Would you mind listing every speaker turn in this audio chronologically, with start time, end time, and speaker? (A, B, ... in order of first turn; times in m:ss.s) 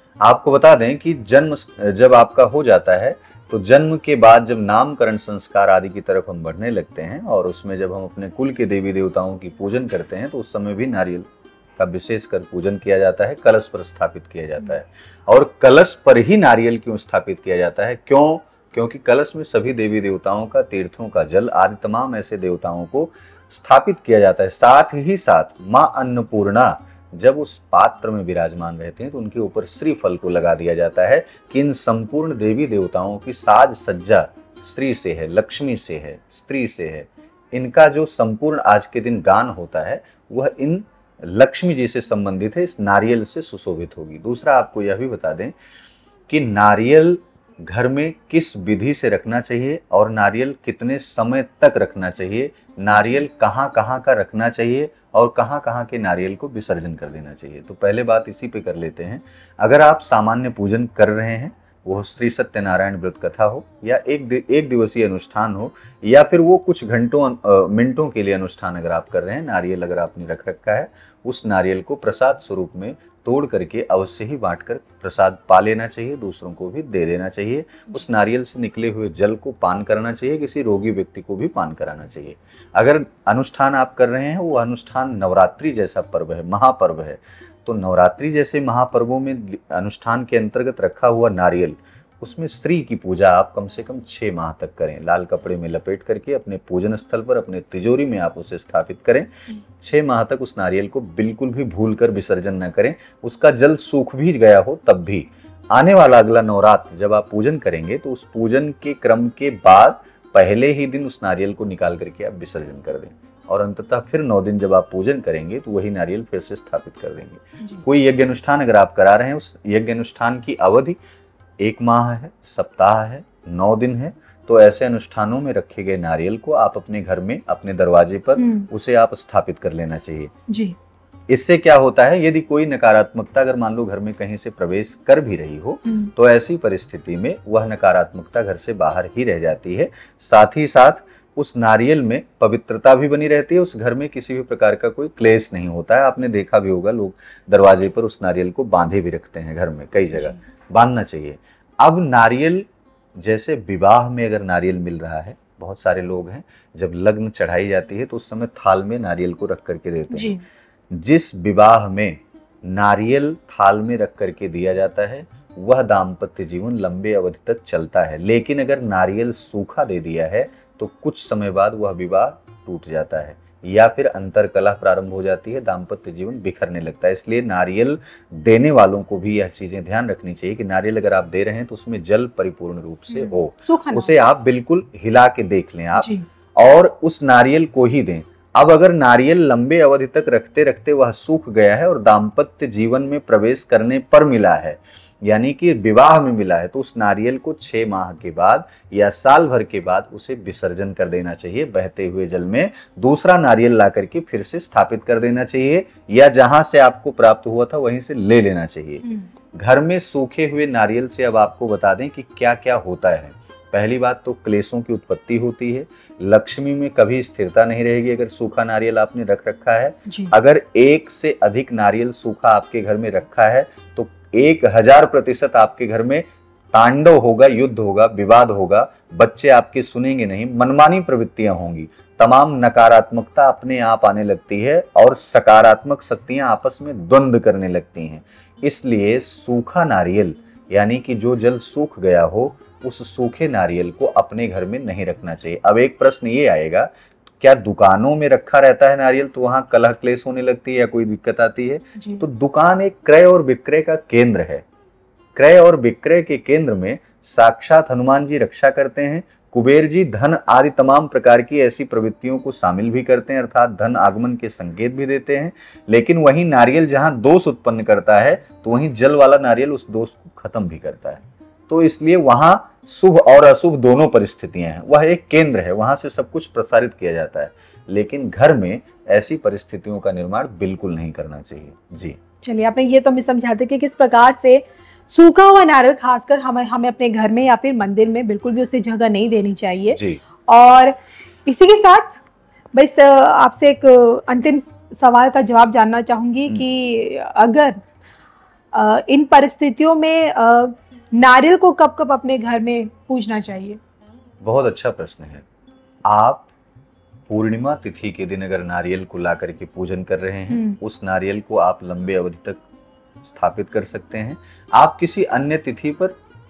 0:00.2-0:45.5 A
0:46.3-2:01.0 A
0:52.9-0:53.2 B
2:01.6-2:10.3 A
2:08.4-2:08.7 B
2:10.5-2:10.8 B
2:11.3-2:32.7 A
2:30.1-2:30.4 B
2:33.2-2:40.4 A
2:40.1-2:40.4 B
2:40.9-4:14.6 A
3:03.1-3:04.1 B
3:06.0-3:06.2 B
3:40.1-3:40.3 B
4:12.0-4:12.2 B
4:15.4-4:42.2 A
4:42.4-4:51.0 B
4:49.9-4:50.2 A
4:51.5-4:52.2 B
4:52.8-4:57.8 B
4:58.7-5:03.8 B
5:04.4-5:05.4 A
5:06.1-5:06.5 A
5:07.3-5:12.6 A
5:10.5-5:10.8 B
5:13.2-5:16.2 A